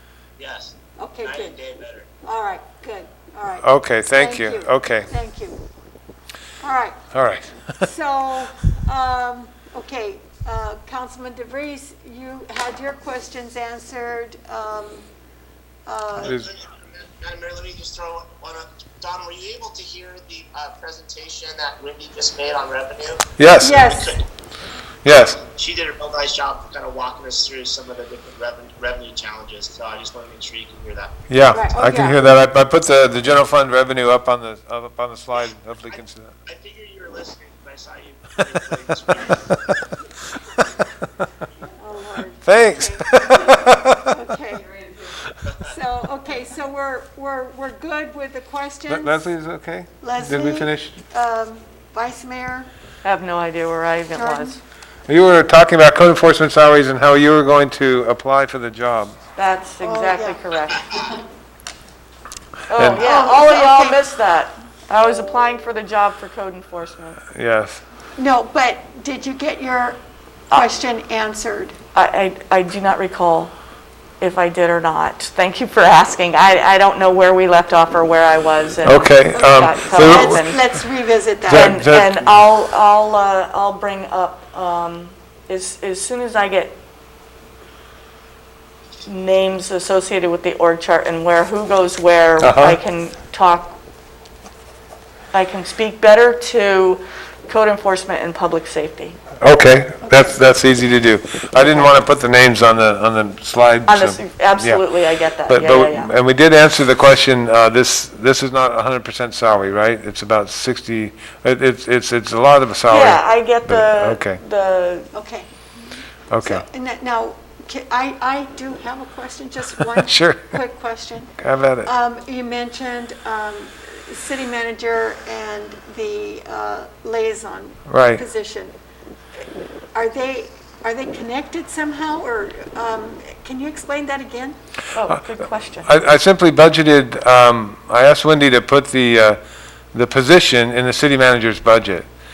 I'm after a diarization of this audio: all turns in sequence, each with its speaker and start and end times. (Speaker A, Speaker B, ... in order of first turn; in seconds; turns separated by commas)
Speaker A: 0.4-2.1, Speaker B: 1.0-1.6, Speaker B: 2.2-5.6, Speaker C: 3.6-5.1, Speaker B: 6.6-7.0, Speaker C: 7.1-7.9, Speaker B: 7.8-15.1, Speaker B: 15.8-16.4, Speaker C: 16.2-16.4, Speaker A: 16.3-24.2, Speaker C: 23.4-23.8, Speaker B: 23.6-24.2, Speaker C: 25.0-25.4, Speaker A: 25.4-31.1, Speaker C: 31.3-36.4, Speaker B: 31.5-32.2, Speaker A: 35.9-39.5, Speaker C: 39.1-39.7, Speaker C: 40.6-40.8, Speaker B: 41.8-43.3, Speaker C: 42.4-44.1, Speaker B: 44.0-44.8, Speaker B: 45.6-49.3, Speaker C: 48.9-51.0, Speaker B: 50.0-52.7, Speaker D: 53.0-54.6, Speaker B: 54.1-54.6, Speaker C: 55.1-59.1, Speaker D: 59.4-60.9, Speaker B: 59.8-61.1, Speaker D: 62.7-67.2, Speaker C: 62.7-63.0, Speaker B: 63.0-64.0, Speaker C: 67.3-67.8, Speaker B: 68.2-70.0, Speaker B: 70.5-71.8, Speaker D: 71.9-73.5, Speaker D: 74.2-80.6, Speaker C: 78.8-80.4, Speaker B: 79.4-81.7, Speaker C: 81.5-82.3, Speaker D: 81.5-86.8, Speaker D: 89.0-93.8, Speaker C: 92.4-92.8, Speaker D: 95.3-99.2, Speaker C: 99.4-104.8, Speaker D: 103.9-106.1, Speaker C: 105.5-114.4, Speaker D: 112.9-115.1, Speaker B: 115.1-115.5, Speaker C: 116.3-116.6, Speaker B: 116.4-121.3, Speaker C: 120.0-120.6, Speaker C: 121.4-121.9, Speaker B: 121.8-128.7, Speaker C: 127.9-128.2, Speaker B: 129.9-134.6, Speaker D: 134.9-135.9, Speaker C: 135.8-139.4, Speaker C: 139.9-142.1